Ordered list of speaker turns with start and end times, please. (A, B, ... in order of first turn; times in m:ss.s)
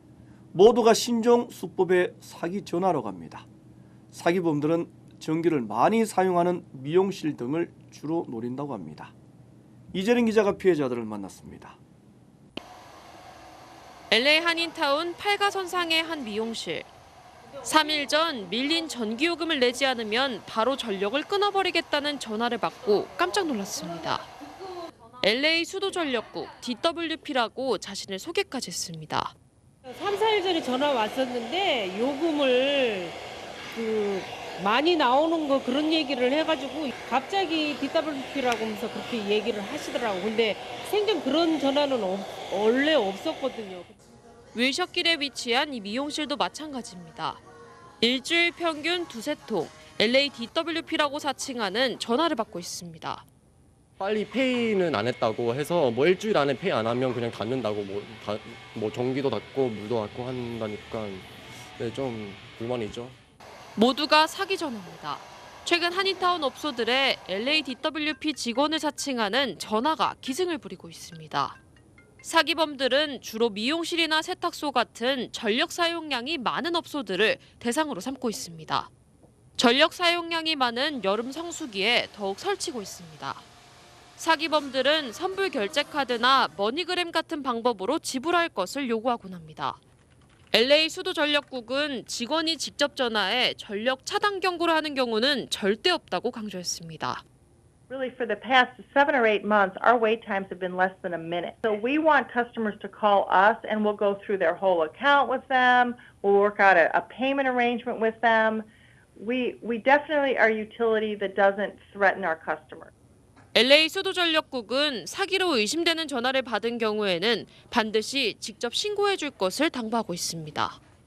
0:00.5-0:03.5 A
0:04.1-0:09.1 A
0:09.9-0:11.8 A
0:14.1-0:16.9 B
0:17.6-0:24.3 B
0:25.2-0:29.3 B
0:29.8-0:33.2 C
0:33.7-0:44.0 C
0:44.5-0:47.4 B
0:48.0-0:53.2 B
0:54.0-1:03.2 D
1:03.8-1:11.6 B
1:12.2-1:18.9 B
1:19.6-1:23.4 B
1:24.2-1:29.8 B
1:30.5-1:37.2 B
1:37.9-1:52.9 E
1:53.5-2:00.8 B